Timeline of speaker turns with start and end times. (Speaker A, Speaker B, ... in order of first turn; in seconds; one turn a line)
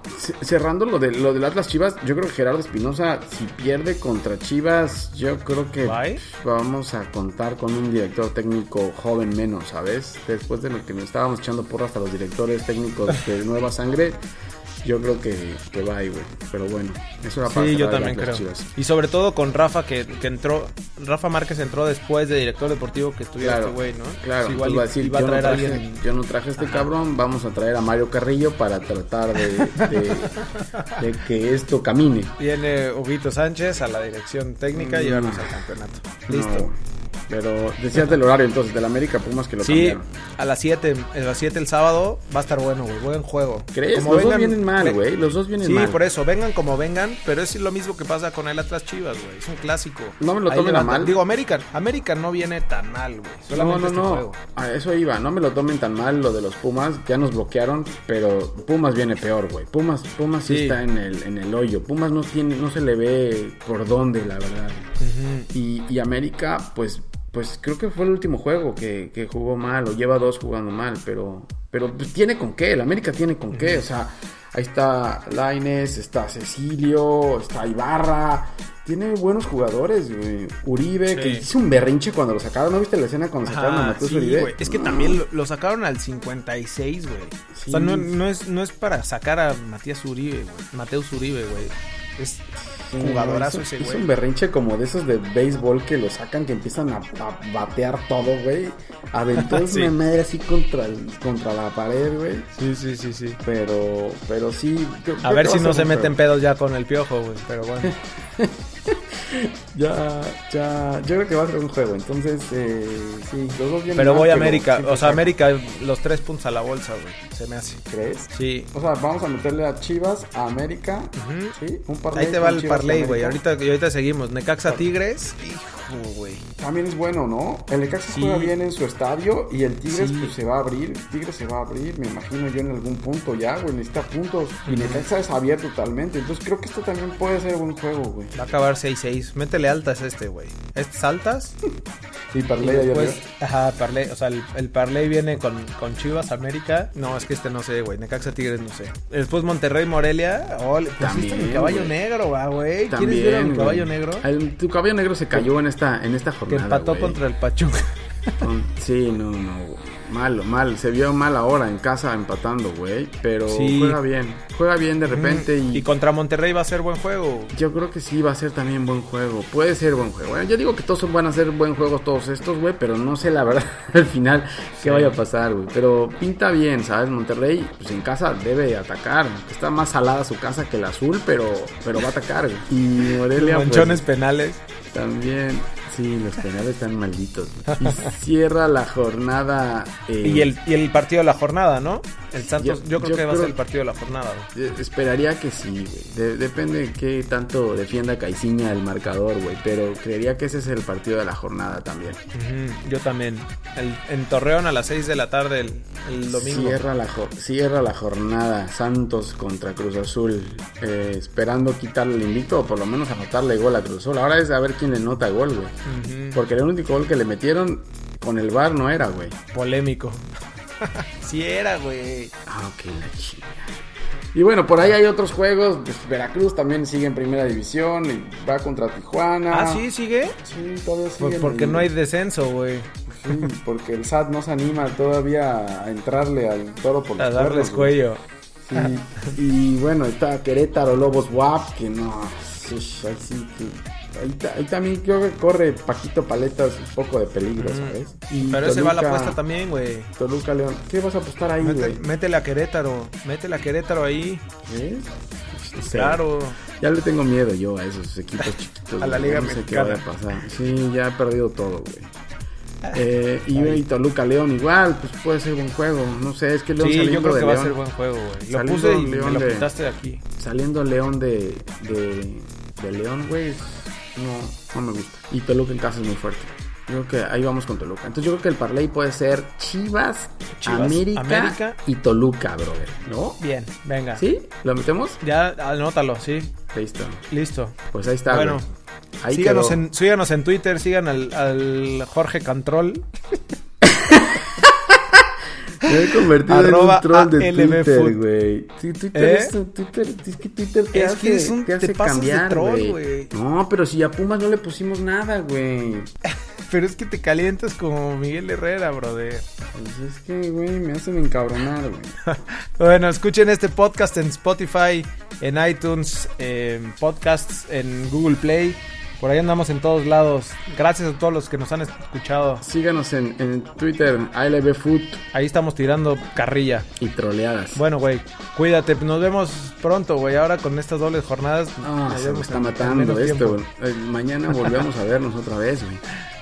Speaker A: 0.1-14.2
Speaker B: 5.8-6.2
Speaker A: 14.8-18.7
Speaker B: 17.4-25.9
Speaker A: 23.4-30.4
Speaker B: 26.6-26.9
Speaker B: 29.4-31.0
Speaker A: 30.9-32.4
Speaker B: 32.4-36.7
Speaker A: 34.7-35.6
Speaker A: 36.3-36.8
Speaker A: 37.3-40.0
Speaker B: 39.6-45.0
Speaker A: 43.7-46.0
Speaker B: 45.6-54.4
Speaker A: 50.2-51.2
Speaker A: 53.5-64.9
Speaker B: 60.5-60.8
Speaker B: 65.0-65.5
Speaker A: 65.5-85.2
Speaker B: 73.5-73.8
Speaker B: 81.1-81.5
Speaker B: 83.4-94.1
Speaker A: 87.5-88.2
Speaker A: 92.6-102.5
Speaker B: 99.4-99.9
Speaker B: 102.5-103.4
Speaker A: 103.4-106.2
Speaker B: 105.2-107.9
Speaker A: 107.8-115.4
Speaker B: 113.9-118.7
Speaker A: 117.9-123.4
Speaker B: 121.2-121.6
Speaker B: 122.1-126.5
Speaker A: 126.6-138.3
Speaker B: 128.1-128.5
Speaker B: 129.9-130.3
Speaker B: 134.7-135.1
Speaker B: 138.3-141.6
Speaker A: 142.3-143.2
Speaker B: 142.6-154.2
Speaker A: 151.0-151.9
Speaker A: 152.9-157.2
Speaker B: 156.5-158.4
Speaker A: 158.4-165.9
Speaker B: 163.5-164.0
Speaker B: 165.1-167.6
Speaker A: 167.5-184.1
Speaker B: 174.8-175.2
Speaker B: 183.2-184.6
Speaker A: 184.8-190.5
Speaker B: 187.7-188.2
Speaker B: 190.2-194.5
Speaker A: 192.4-193.6
Speaker A: 194.5-202.2
Speaker B: 202.3-206.8
Speaker A: 206.3-215.8
Speaker B: 215.8-216.4
Speaker A: 216.3-219.4
Speaker B: 219.5-220.2
Speaker B: 220.8-222.3
Speaker A: 222.4-223.7
Speaker A: 224.3-229.9
Speaker B: 229.5-230.4
Speaker A: 230.4-231.9
Speaker B: 231.2-233.5
Speaker A: 233.1-238.0
Speaker B: 237.2-238.2
Speaker A: 238.6-249.4
Speaker B: 247.6-250.1
Speaker A: 250.2-252.0
Speaker B: 251.6-254.4
Speaker A: 254.6-262.1
Speaker B: 255.8-256.6
Speaker B: 259.0-260.1
Speaker A: 262.9-267.8
Speaker B: 263.5-263.8
Speaker B: 266.8-270.2
Speaker A: 268.5-269.7
Speaker A: 270.4-283.4
Speaker B: 280.6-281.8
Speaker B: 283.4-284.2
Speaker A: 284.1-285.2
Speaker B: 285.2-286.6
Speaker A: 286.7-287.2
Speaker B: 287.3-288.6
Speaker A: 287.9-288.6
Speaker A: 289.2-289.8
Speaker B: 289.3-293.1
Speaker A: 293.8-294.5
Speaker A: 295.8-306.1
Speaker B: 296.4-298.2
Speaker B: 299.1-299.5
Speaker B: 300.9-303.3
Speaker B: 306.7-309.5
Speaker A: 309.7-312.1
Speaker B: 312.2-322.6
Speaker A: 322.6-325.2
Speaker B: 325.3-326.9
Speaker A: 327.0-327.8
Speaker B: 327.7-333.6
Speaker A: 331.8-336.0